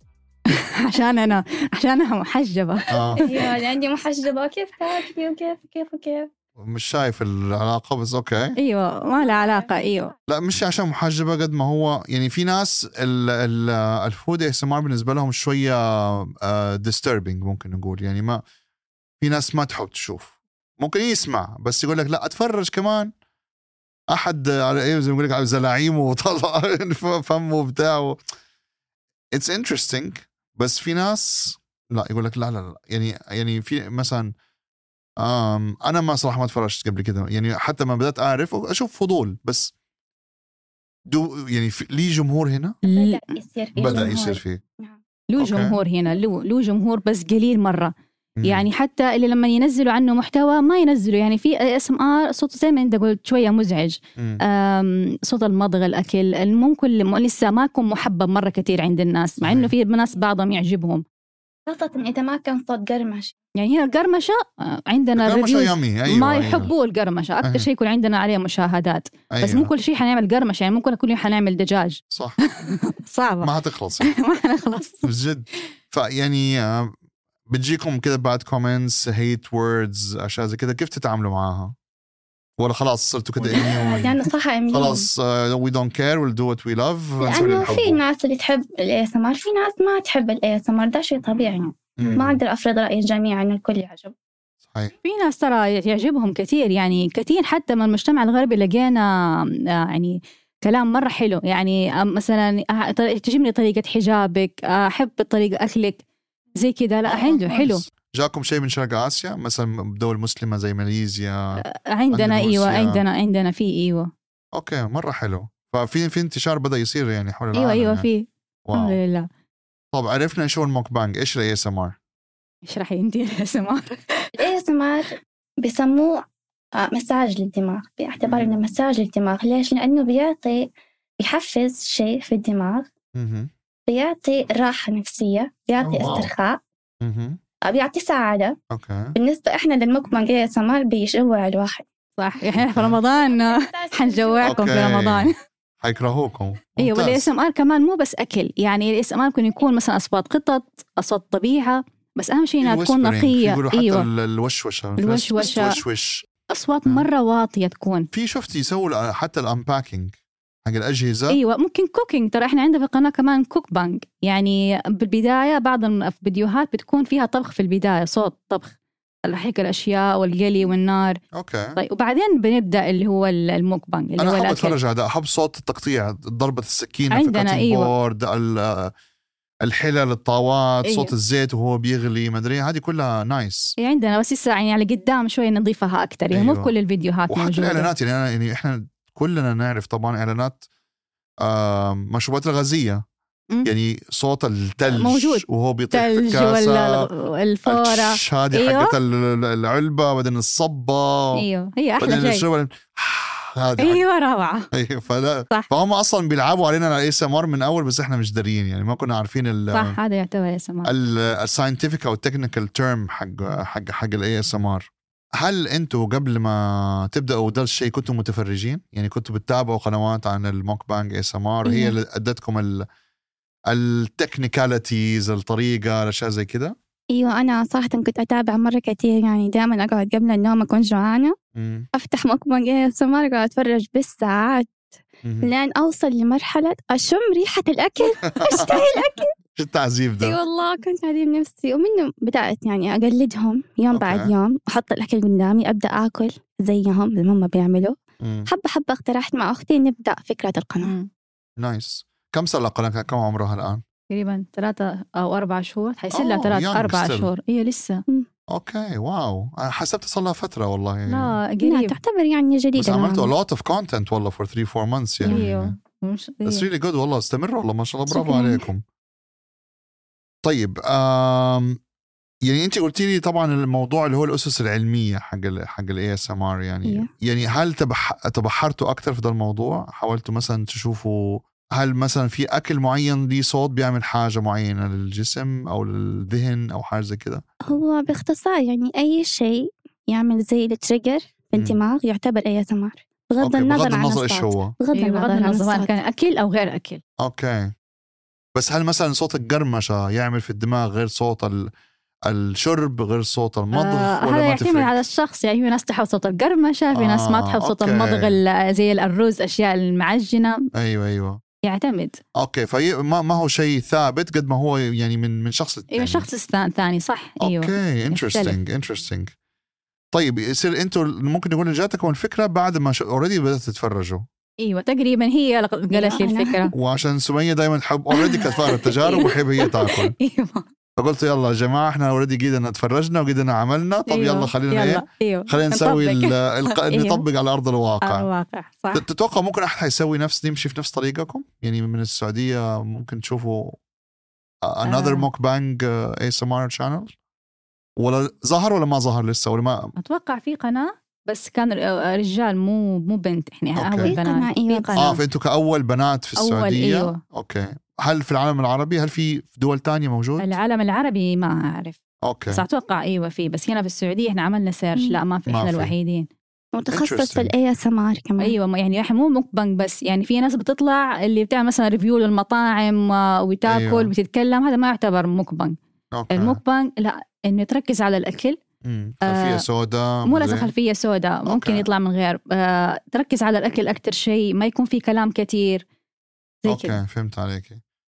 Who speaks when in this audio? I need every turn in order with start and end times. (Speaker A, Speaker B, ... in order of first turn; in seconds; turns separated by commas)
Speaker A: 0.5-3.5, Speaker B: 2.9-3.2, Speaker C: 3.2-6.3, Speaker B: 6.6-8.6, Speaker A: 8.6-10.1, Speaker B: 10.3-18.4, Speaker B: 19.2-23.1, Speaker B: 24.1-28.2, Speaker B: 29.3-34.3, Speaker B: 35.2-39.7, Speaker B: 41.1-42.8, Speaker A: 42.8-43.2, Speaker C: 42.9-45.0, Speaker B: 43.8-44.6, Speaker A: 43.8-44.1, Speaker A: 45.3-61.0, Speaker B: 45.4-45.8, Speaker B: 48.4-48.7, Speaker B: 54.2-54.4, Speaker B: 59.4-59.7, Speaker C: 61.7-63.3, Speaker A: 63.6-73.5, Speaker B: 65.2-66.7, Speaker B: 69.3-69.7, Speaker B: 72.1-72.4, Speaker B: 73.4-74.1, Speaker A: 74.0-75.1, Speaker B: 75.0-77.0, Speaker B: 77.5-81.8, Speaker B: 82.6-88.0, Speaker C: 83.5-85.1, Speaker C: 87.2-94.1, Speaker B: 92.0-92.4, Speaker B: 94.7-94.9, Speaker A: 95.0-99.1, Speaker A: 99.9-106.0, Speaker A: 106.5-107.8, Speaker B: 107.1-113.0, Speaker A: 111.6-114.1, Speaker B: 114.5-118.1, Speaker A: 117.5-119.3, Speaker B: 118.7-119.0, Speaker B: 119.9-122.0, Speaker A: 122.7-124.3, Speaker C: 124.4-125.1, Speaker C: 125.6-126.2, Speaker C: 126.8-132.9, Speaker B: 128.2-128.6, Speaker B: 133.2-133.5, Speaker C: 133.9-136.6, Speaker B: 135.8-136.3, Speaker B: 137.0-137.4, Speaker C: 137.7-138.6, Speaker B: 138.7-139.2, Speaker C: 139.2-141.8, Speaker A: 142.2-145.3, Speaker B: 142.6-143.0, Speaker C: 143.2-145.0, Speaker B: 144.4-145.3, Speaker B: 145.8-147.3, Speaker A: 146.8-154.1, Speaker B: 152.6-156.3, Speaker A: 155.0-155.8, Speaker A: 156.5-158.1, Speaker B: 158.1-161.4, Speaker A: 161.3-168.7, Speaker A: 169.3-171.2, Speaker B: 171.3-171.8, Speaker A: 171.8-174.8, Speaker B: 174.2-178.9, Speaker A: 177.1-177.9, Speaker B: 179.7-183.8, Speaker A: 180.8-181.1, Speaker A: 183.8-187.9, Speaker B: 186.3-186.7, Speaker B: 187.3-190.6, Speaker B: 191.4-193.0, Speaker B: 193.6-197.1, Speaker A: 194.9-198.9, Speaker B: 197.7-201.4, Speaker A: 201.4-202.4, Speaker B: 202.0-204.0, Speaker A: 203.8-204.7, Speaker B: 204.7-210.0, Speaker A: 209.7-210.9, Speaker B: 210.8-214.9, Speaker B: 215.4-222.8, Speaker C: 221.6-221.9, Speaker B: 223.7-226.8, Speaker C: 227.1-231.3, Speaker B: 231.6-231.9, Speaker C: 231.9-234.8, Speaker B: 235.2-235.5, Speaker C: 235.4-239.3, Speaker B: 238.3-238.8, Speaker B: 239.6-240.4, Speaker C: 240.2-250.9, Speaker B: 243.9-244.3, Speaker B: 248.2-248.5, Speaker A: 250.8-251.1, Speaker B: 251.6-253.8, Speaker A: 254.1-258.0, Speaker B: 256.1-257.3, Speaker B: 258.5-261.4, Speaker A: 261.1-262.0, Speaker C: 261.6-263.3, Speaker B: 262.8-265.8, Speaker A: 265.3-266.7, Speaker B: 266.5-268.8, Speaker C: 268.1-268.7, Speaker B: 270.4-271.8, Speaker B: 272.5-287.4, Speaker C: 287.7-295.9, Speaker B: 291.6-291.8, Speaker B: 293.4-294.7, Speaker A: 294.9-297.0, Speaker B: 297.2-297.7, Speaker B: 298.6-301.7, Speaker B: 302.3-305.0, Speaker A: 303.7-310.6, Speaker B: 306.9-308.4, Speaker B: 310.7-311.4, Speaker A: 311.6-312.2, Speaker B: 312.4-316.3, Speaker A: 315.9-318.6, Speaker B: 317.4-319.3, Speaker B: 320.1-324.2, Speaker A: 324.6-326.7, Speaker C: 325.9-326.7, Speaker B: 326.7-330.1, Speaker A: 328.1-330.6, Speaker B: 331.0-338.3, Speaker A: 334.1-337.2, Speaker A: 338.0-339.0, Speaker B: 338.9-343.8, Speaker B: 344.6-347.1, Speaker A: 344.9-345.3, Speaker B: 348.0-349.9, Speaker A: 350.0-355.2, Speaker B: 353.8-354.1, Speaker C: 354.0-355.1, Speaker B: 355.0-360.5, Speaker A: 356.4-357.2, Speaker A: 360.4-366.3, Speaker B: 362.2-362.6, Speaker B: 365.5-365.9, Speaker C: 366.7-368.5, Speaker B: 366.9-367.6, Speaker A: 368.4-375.8, Speaker B: 373.7-374.1, Speaker B: 376.1-376.6, Speaker A: 376.3-378.6, Speaker B: 378.8-380.7, Speaker A: 379.2-379.6, Speaker A: 380.3-385.8, Speaker B: 381.5-381.9, Speaker A: 386.6-387.0, Speaker B: 386.7-387.8